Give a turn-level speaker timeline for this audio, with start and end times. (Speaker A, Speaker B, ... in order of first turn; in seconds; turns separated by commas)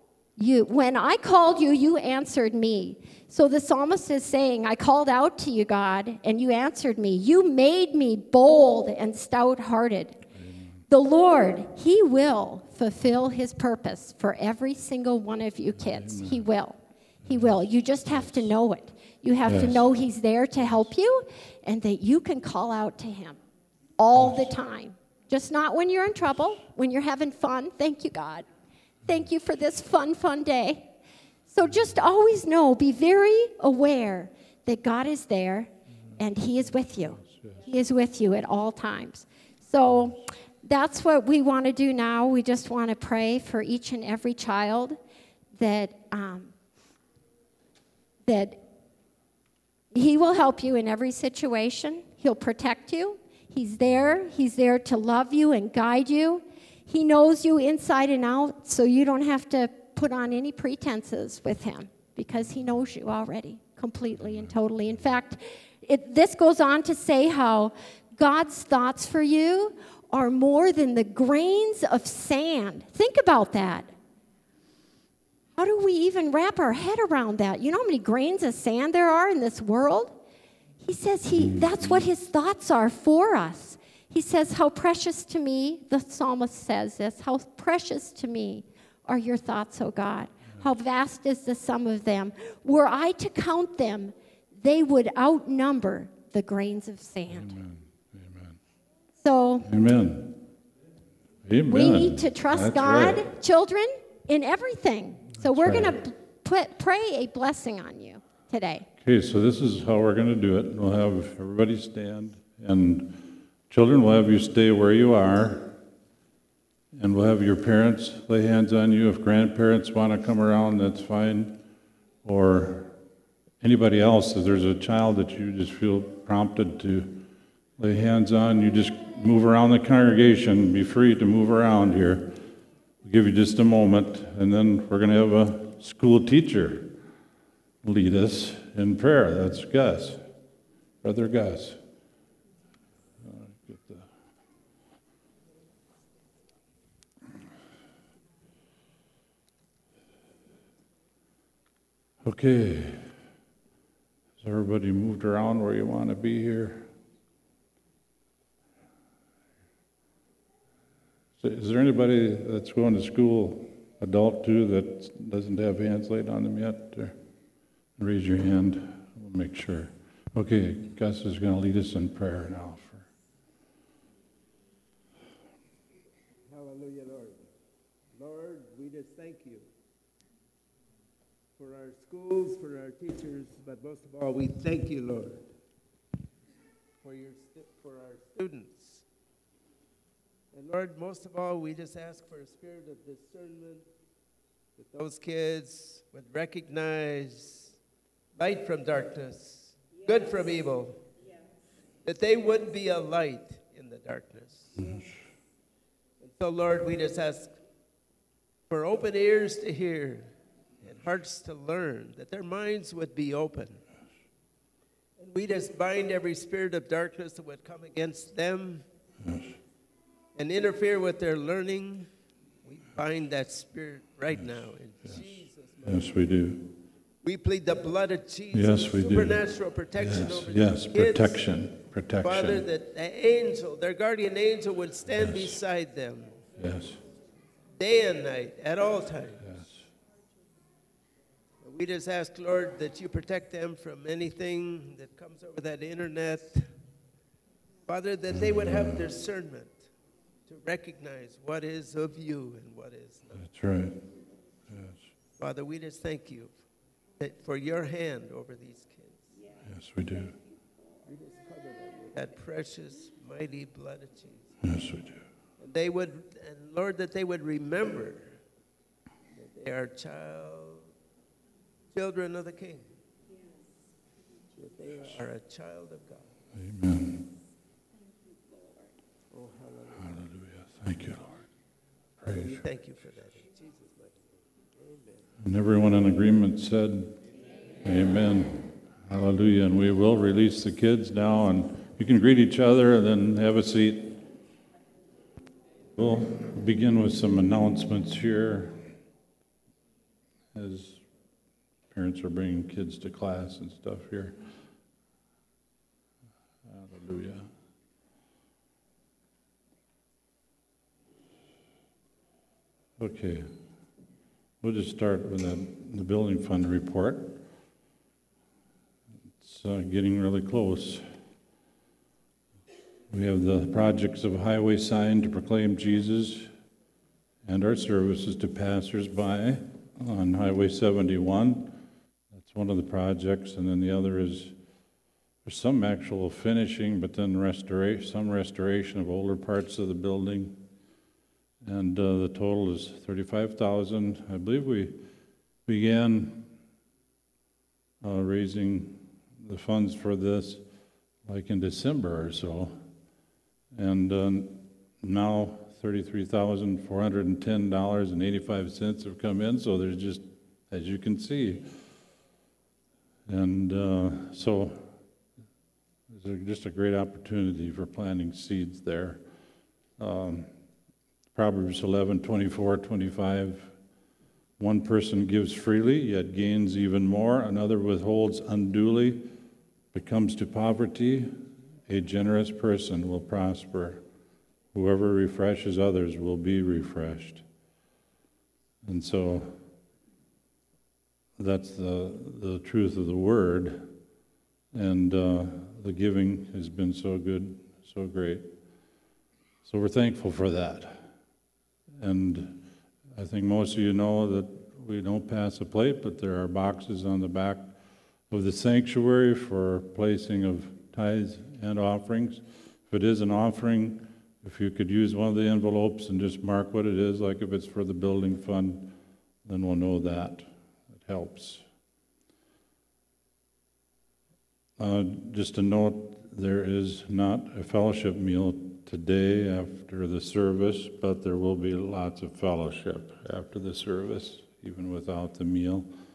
Speaker A: 0.4-10.2, Speaker B: 10.4-10.8, Speaker A: 10.9-23.4, Speaker B: 15.9-16.4, Speaker B: 19.5-19.9, Speaker A: 24.0-28.4, Speaker A: 29.1-30.9, Speaker A: 31.5-45.0, Speaker B: 37.2-37.5, Speaker A: 45.6-46.5, Speaker A: 48.3-48.6, Speaker A: 49.9-73.9, Speaker A: 75.5-80.2, Speaker A: 80.8-97.5, Speaker B: 81.4-82.0, Speaker B: 97.3-98.6, Speaker A: 99.2-99.7, Speaker B: 99.7-100.5, Speaker B: 101.5-103.3, Speaker A: 101.7-108.9, Speaker B: 105.4-105.9, Speaker B: 109.0-115.8, Speaker B: 117.0-121.6, Speaker B: 122.2-122.9, Speaker B: 123.6-127.3, Speaker B: 127.8-132.4, Speaker B: 133.1-137.0, Speaker B: 137.8-140.2, Speaker B: 141.0-141.8, Speaker B: 143.2-144.1, Speaker B: 152.2-153.1, Speaker B: 154.4-156.9, Speaker B: 161.4-167.2, Speaker B: 168.0-173.1, Speaker C: 176.5-177.5, Speaker C: 178.2-179.7, Speaker C: 181.6-185.5, Speaker C: 187.0-189.0, Speaker C: 190.5-193.8, Speaker C: 194.8-197.8, Speaker C: 198.4-201.1, Speaker C: 202.0-205.0, Speaker C: 206.2-207.6, Speaker C: 208.7-210.3, Speaker C: 210.8-213.8, Speaker C: 215.2-218.8, Speaker B: 219.2-219.5, Speaker C: 220.3-222.1, Speaker C: 222.6-226.2, Speaker B: 225.8-226.8, Speaker C: 227.2-231.4, Speaker B: 228.5-229.5, Speaker B: 230.0-232.7, Speaker C: 232.2-236.4, Speaker B: 235.2-235.5, Speaker B: 236.6-237.0, Speaker C: 237.8-239.6, Speaker C: 241.6-246.7, Speaker C: 247.9-249.9, Speaker B: 248.3-249.0, Speaker C: 250.5-253.5, Speaker B: 253.4-254.0, Speaker B: 254.7-255.0, Speaker C: 255.4-256.5, Speaker C: 257.2-259.4, Speaker B: 259.7-260.4, Speaker C: 261.0-264.6, Speaker B: 264.6-265.2, Speaker C: 265.6-268.4, Speaker C: 269.3-270.9, Speaker C: 271.9-272.9, Speaker C: 274.5-276.3, Speaker B: 276.6-277.3, Speaker C: 279.3-280.2, Speaker B: 280.0-281.4, Speaker B: 282.2-282.6, Speaker C: 282.3-284.2, Speaker C: 284.8-285.3, Speaker B: 285.4-287.2, Speaker B: 287.8-294.2, Speaker B: 295.9-298.8, Speaker B: 300.5-301.0, Speaker B: 301.9-304.4, Speaker B: 306.7-307.5, Speaker B: 313.0-313.5, Speaker B: 314.6-317.4, Speaker B: 319.4-321.1, Speaker B: 323.1-326.5, Speaker B: 327.4-331.8, Speaker B: 332.4-334.6, Speaker B: 335.4-340.6, Speaker B: 341.6-345.0, Speaker B: 345.7-346.5, Speaker B: 348.0-350.6, Speaker B: 351.3-352.8, Speaker B: 353.7-361.7, Speaker B: 363.3-364.9, Speaker B: 366.1-369.2, Speaker B: 370.0-370.5, Speaker B: 371.4-373.7, Speaker B: 374.6-379.3, Speaker B: 379.9-384.0, Speaker B: 384.7-387.4, Speaker B: 388.8-389.6, Speaker B: 391.4-393.9, Speaker B: 394.7-398.5, Speaker B: 399.6-401.1, Speaker B: 402.0-407.7, Speaker B: 408.3-420.5, Speaker B: 421.0-421.6, Speaker B: 424.8-435.9